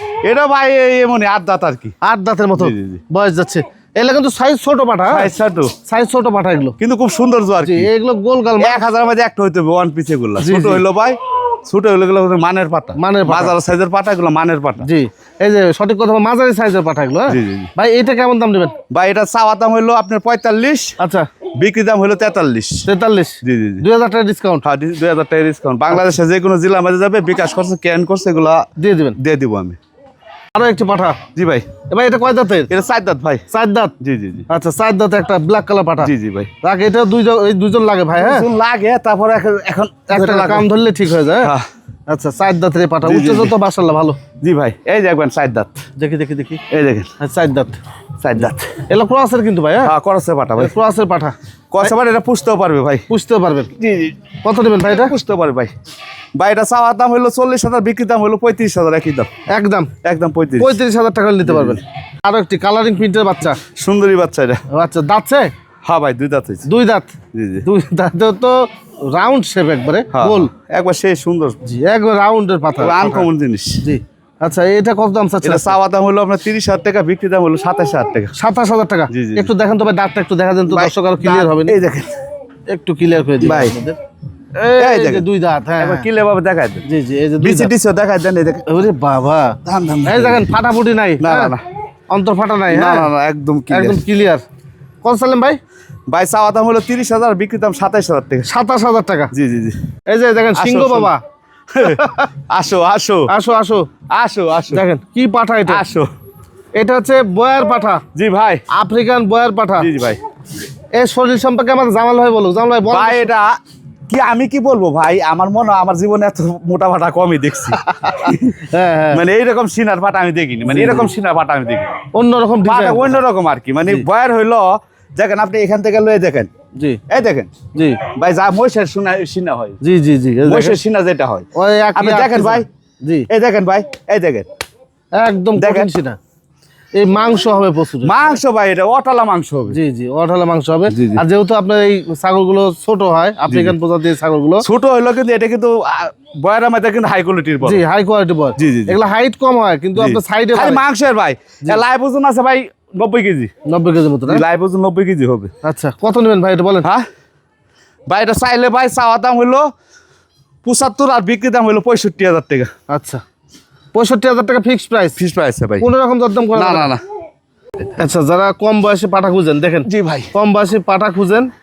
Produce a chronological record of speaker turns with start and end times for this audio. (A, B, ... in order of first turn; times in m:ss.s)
0:00.2-0:02.0 A
0:02.0-0:05.3 B
0:02.6-0:03.0 A
0:05.1-0:05.7 A
0:05.9-0:06.8 B
0:06.8-0:07.9 A
0:07.6-0:08.8 B
0:08.6-0:14.9 A
0:10.4-0:10.8 B
0:13.0-0:13.6 B
0:14.8-0:18.7 B
0:17.3-0:17.7 A
0:18.9-0:21.0 A
0:21.0-0:21.3 B
0:21.6-0:22.9 A
0:22.9-0:24.6 B
0:23.4-0:23.8 A
0:24.6-0:28.6 A
0:28.8-0:29.2 B
0:29.2-0:29.8 A
0:30.6-0:31.2 B
0:31.4-0:31.7 A
0:31.9-0:32.7 B
0:32.7-0:33.4 A
0:33.5-0:33.9 B
0:34.0-0:34.5 A
0:34.5-0:36.1 B
0:36.0-0:36.5 A
0:36.6-0:38.5 B
0:38.2-0:40.7 A
0:40.1-0:41.5 B
0:41.4-0:41.7 A
0:42.1-0:44.2 B
0:43.0-0:43.6 A
0:44.4-0:45.8 A
0:46.0-0:46.6 B
0:46.7-0:47.1 A
0:47.2-0:47.8 B
0:48.2-0:48.8 A
0:48.9-0:49.9 B
0:49.8-0:50.8 A
0:50.6-0:51.9 B
0:51.7-0:53.0 A
0:53.1-0:53.7 B
0:53.8-0:54.2 A
0:54.4-0:55.1 B
0:54.8-0:55.7 A
0:56.4-0:59.3 A
0:59.5-0:59.9 B
1:00.0-1:00.8 A
1:00.6-1:03.6 B
1:01.4-1:01.8 A
1:03.8-1:04.6 A
1:04.7-1:05.5 B
1:05.8-1:06.7 A
1:06.6-1:10.5 B
1:07.3-1:07.7 A
1:10.1-1:11.6 A
1:11.6-1:13.3 B
1:12.8-1:13.8 A
1:13.8-1:15.8 B
1:15.4-1:18.3 A
1:18.4-1:21.8 B
1:19.1-1:19.5 A
1:20.7-1:22.1 A
1:22.7-1:24.0 B
1:23.4-1:23.8 A
1:24.6-1:26.1 B
1:24.8-1:25.2 A
1:25.8-1:26.9 A
1:26.9-1:27.7 B
1:27.4-1:28.7 A
1:28.7-1:31.6 B
1:29.6-1:30.5 A
1:31.2-1:31.6 A
1:32.1-1:33.1 B
1:32.7-1:34.0 A
1:33.7-1:34.4 B
1:35.0-1:35.6 B
1:36.1-1:38.5 A
1:38.5-1:39.3 B
1:39.3-1:39.8 A
1:40.1-1:41.2 B
1:40.6-1:41.1 A
1:41.7-1:43.3 A
1:41.8-1:42.3 B
1:43.3-1:43.9 B
1:44.1-1:44.8 A
1:44.7-1:45.8 B
1:45.7-1:46.1 A
1:46.8-1:48.0 B
1:48.2-1:48.6 A
1:48.7-1:49.9 B
1:49.8-1:50.2 A
1:50.9-1:53.3 B
1:52.9-1:53.5 A
1:54.1-2:01.9 A
1:57.8-1:59.2 B
2:00.7-2:01.1 B
2:02.1-2:03.2 B
2:02.6-2:06.5 A
2:07.1-2:09.8 A
2:07.7-2:08.0 B
2:09.8-2:10.8 B
2:10.4-2:12.7 A
2:11.6-2:13.3 B
2:13.3-2:14.5 A
2:15.2-2:16.2 B
2:15.6-2:15.9 A
2:16.9-2:18.4 B
2:18.0-2:19.8 A
2:19.7-2:24.6 B
2:20.9-2:21.2 A
2:23.5-2:23.8 A
2:24.6-2:27.8 A
2:27.6-2:30.8 B
2:28.6-2:29.0 A
2:30.0-2:33.5 A
2:33.7-2:34.4 B
2:34.3-2:35.5 A
2:35.6-2:36.9 B
2:38.1-2:39.7 A
2:40.6-2:42.7 A
2:42.9-2:43.2 B
2:43.9-2:45.2 B
2:45.2-2:45.9 A
2:45.8-2:46.9 B
2:46.6-2:47.0 A
2:48.0-2:51.5 B
2:49.8-2:50.3 A